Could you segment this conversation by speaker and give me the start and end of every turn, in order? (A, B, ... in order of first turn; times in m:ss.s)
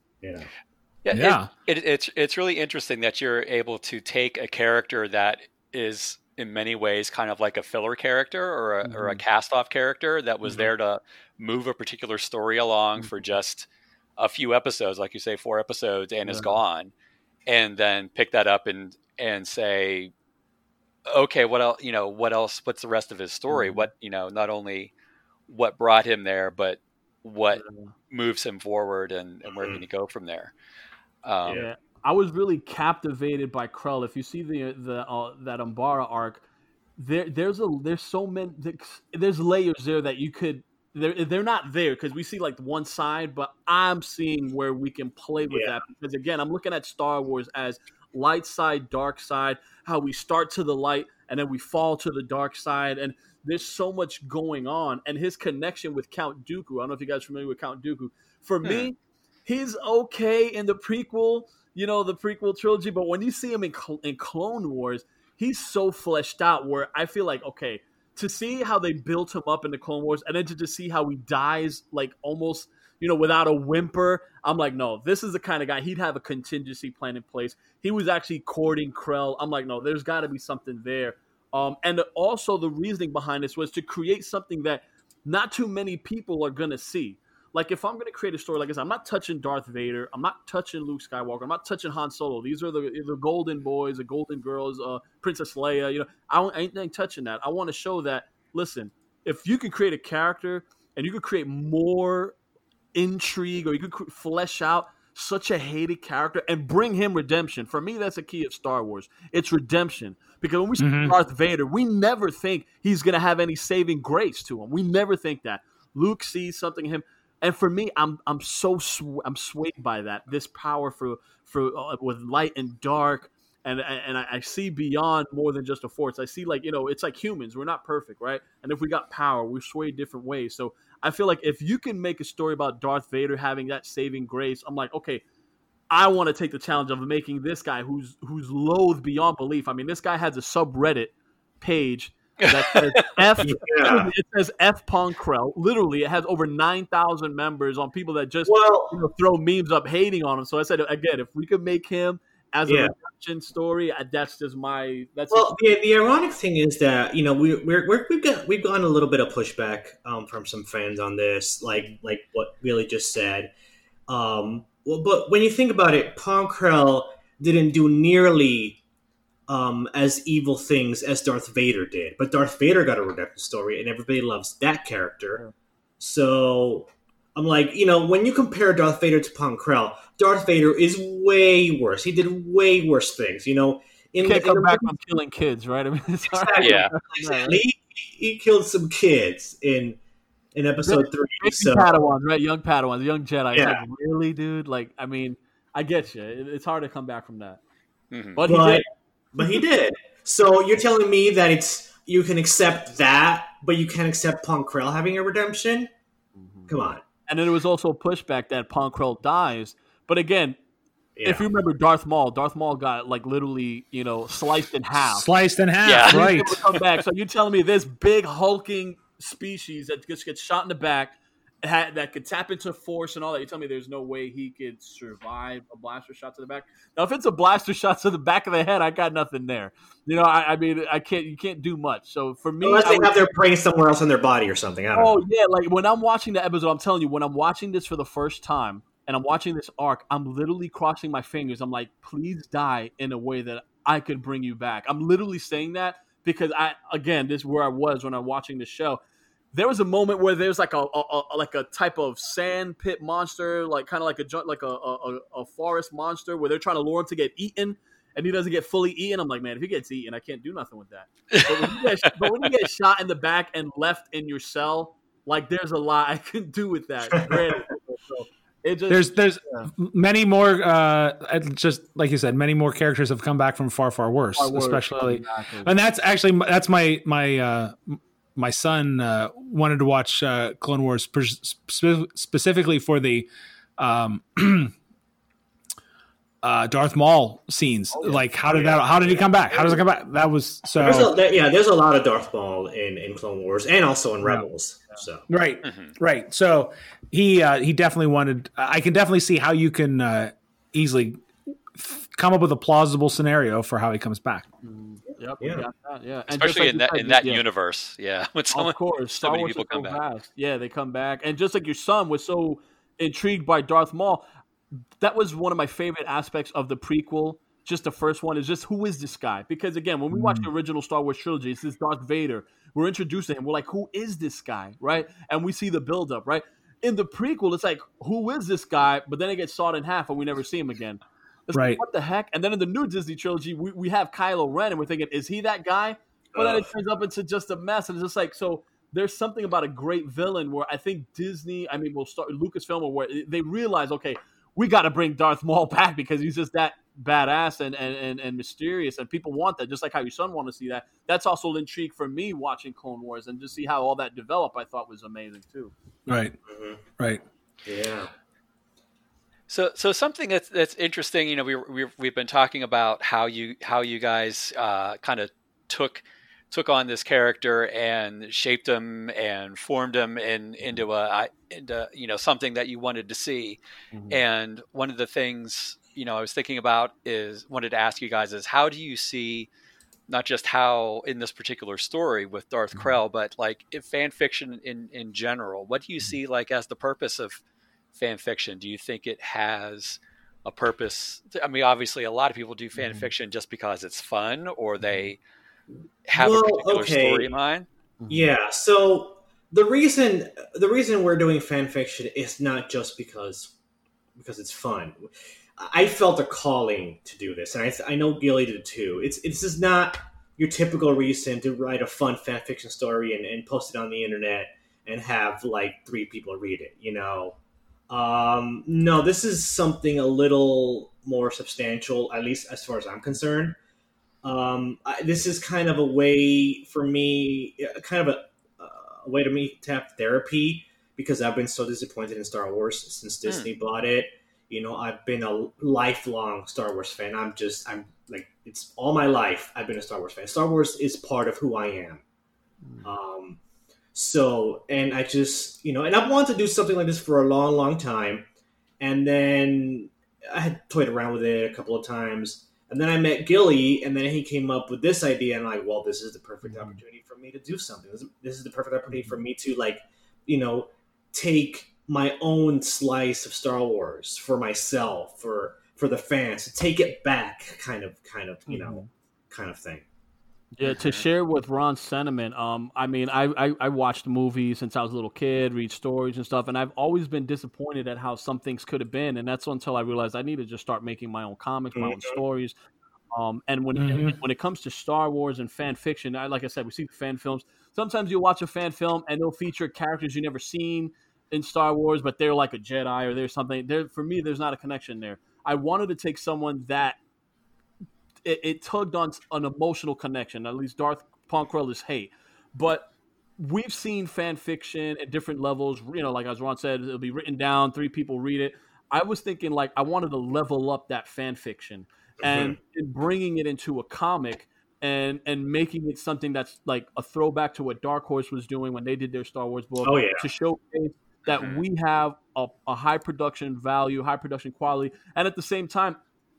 0:00.2-0:00.5 A
0:01.0-0:16.9 B
0:01.1-0:01.5 C
0:08.8-0:09.2 D
0:10.4-0:10.7 D
0:16.2-0:16.6 D
0:17.5-0:20.1 B
0:21.1-0:24.9 B
0:23.5-0:23.9 D
0:25.5-0:30.5 B
0:27.5-0:27.9 D
0:29.5-0:29.8 A
0:31.2-0:31.6 B
0:31.5-0:36.4 D
0:37.0-1:42.4 D
0:45.5-0:45.8 A
1:43.0-2:15.2 D
1:50.8-1:51.2 C
2:15.9-2:35.5 D
2:22.4-2:23.0 B
2:23.4-2:24.1 A
2:28.5-2:29.0 A
2:32.7-2:32.9 A
2:35.3-2:43.5 A
2:44.1-2:48.8 A
2:49.5-2:55.4 A
2:56.0-3:04.9 A
3:04.2-3:07.6 D
3:06.2-3:10.0 A
3:06.6-3:06.9 B
3:10.6-3:11.9 A
3:10.8-3:17.6 D
3:13.5-3:13.8 A
3:18.1-3:18.4 B
3:18.4-3:18.8 D
3:18.4-3:25.9 A
3:26.4-3:26.7 D
3:26.7-3:27.0 A
3:27.3-3:30.6 D
3:31.2-3:31.4 A
3:31.2-3:35.2 D
3:35.0-3:36.6 C
3:35.8-3:36.8 B
3:36.1-3:53.2 D
3:52.6-3:55.2 A
3:54.9-4:09.0 D
4:09.5-4:29.7 D
4:21.3-4:21.8 B
4:27.2-4:27.5 A
4:28.9-4:44.7 C
4:34.4-4:35.7 D
4:46.4-4:51.1 C
4:47.9-4:48.7 D
4:48.5-4:49.8 A
4:50.8-4:55.2 A
4:55.3-5:04.5 C
4:55.6-4:55.9 B
5:04.6-5:07.4 D
5:05.4-5:05.7 A
5:06.3-5:10.0 B
5:08.5-5:14.2 D
5:15.0-5:55.7 D
5:20.1-5:20.5 C
5:31.5-5:31.8 C
5:36.3-5:36.7 A
5:56.1-5:56.4 C
5:56.5-5:56.8 A
5:57.7-5:58.1 A
5:59.5-6:13.6 B
6:13.9-6:14.2 D
6:14.1-6:19.5 B
6:20.1-6:27.4 B
6:28.0-6:35.2 B
6:32.8-6:33.1 D
6:36.1-6:37.7 B
6:36.2-6:37.3 A
6:38.0-6:38.3 D
6:38.1-6:43.5 A
6:44.2-6:57.4 A
6:57.9-7:03.6 A
7:04.2-7:22.0 A
7:13.2-7:13.5 B
7:22.6-7:22.9 D
7:22.8-7:23.4 A
7:23.9-7:28.2 A
7:28.8-7:49.8 A
7:36.4-7:36.8 D
7:48.5-7:48.9 D
7:50.5-8:02.5 D
7:50.6-7:51.0 B
8:01.8-8:02.2 A
8:03.1-8:17.0 D
8:03.8-8:04.2 C
8:18.2-8:46.0 D
8:32.2-8:32.6 A
8:39.8-8:40.2 A
8:41.3-8:41.6 B